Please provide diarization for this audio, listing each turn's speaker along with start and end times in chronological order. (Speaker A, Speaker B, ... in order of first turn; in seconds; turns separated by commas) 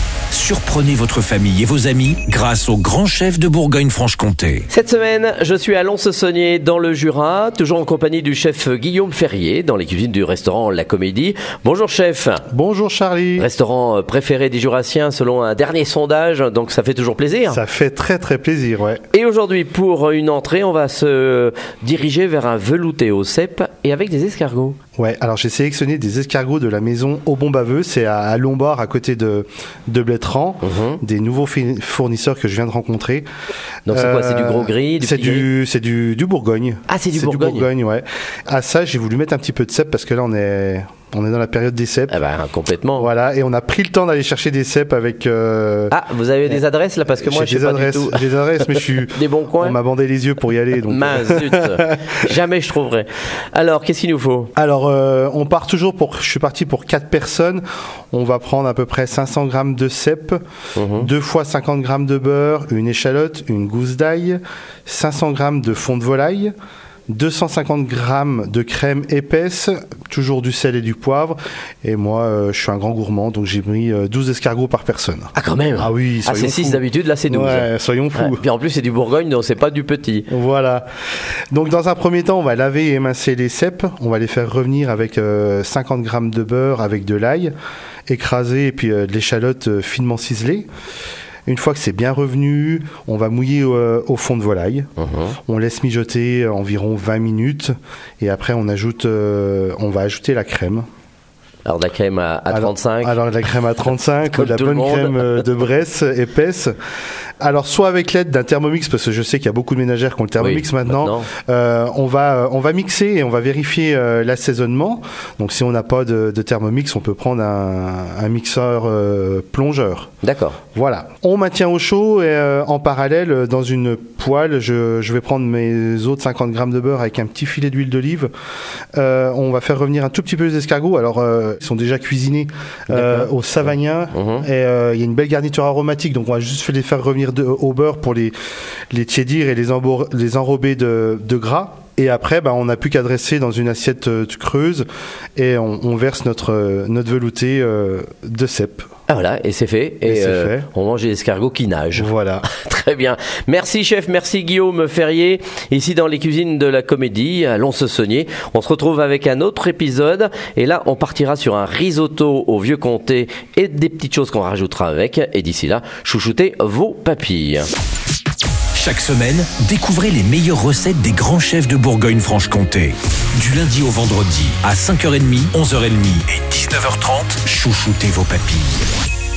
Speaker A: 0.3-4.7, Speaker B: 4.7-12.4, Speaker C: 12.5-13.5, Speaker B: 13.4-17.6, Speaker C: 17.5-19.0, Speaker B: 19.1-24.8, Speaker C: 24.9-33.3, Speaker B: 30.6-31.0, Speaker B: 33.9-35.5, Speaker C: 33.9-42.1, Speaker B: 36.9-37.7, Speaker B: 42.1-43.1, Speaker C: 43.0-45.9, Speaker B: 45.9-49.8, Speaker C: 47.2-52.2, Speaker B: 50.9-54.5, Speaker C: 54.5-60.4, Speaker B: 60.7-61.1, Speaker C: 60.9-66.5, Speaker C: 67.1-78.4, Speaker B: 75.3-80.3, Speaker C: 80.3-80.9, Speaker C: 81.5-87.5, Speaker C: 88.1-90.7, Speaker C: 91.5-94.9, Speaker B: 95.0-95.3, Speaker C: 95.5-100.8, Speaker B: 101.6-103.2, Speaker C: 102.5-106.7, Speaker B: 104.3-105.4, Speaker C: 107.4-120.1, Speaker B: 110.4-111.3, Speaker B: 120.2-120.6, Speaker C: 120.7-128.3, Speaker C: 128.9-138.3, Speaker B: 132.9-133.3, Speaker B: 134.1-134.4, Speaker C: 138.9-148.9, Speaker B: 149.1-167.7, Speaker C: 150.0-150.7, Speaker C: 151.9-152.4, Speaker A: 168.7-178.8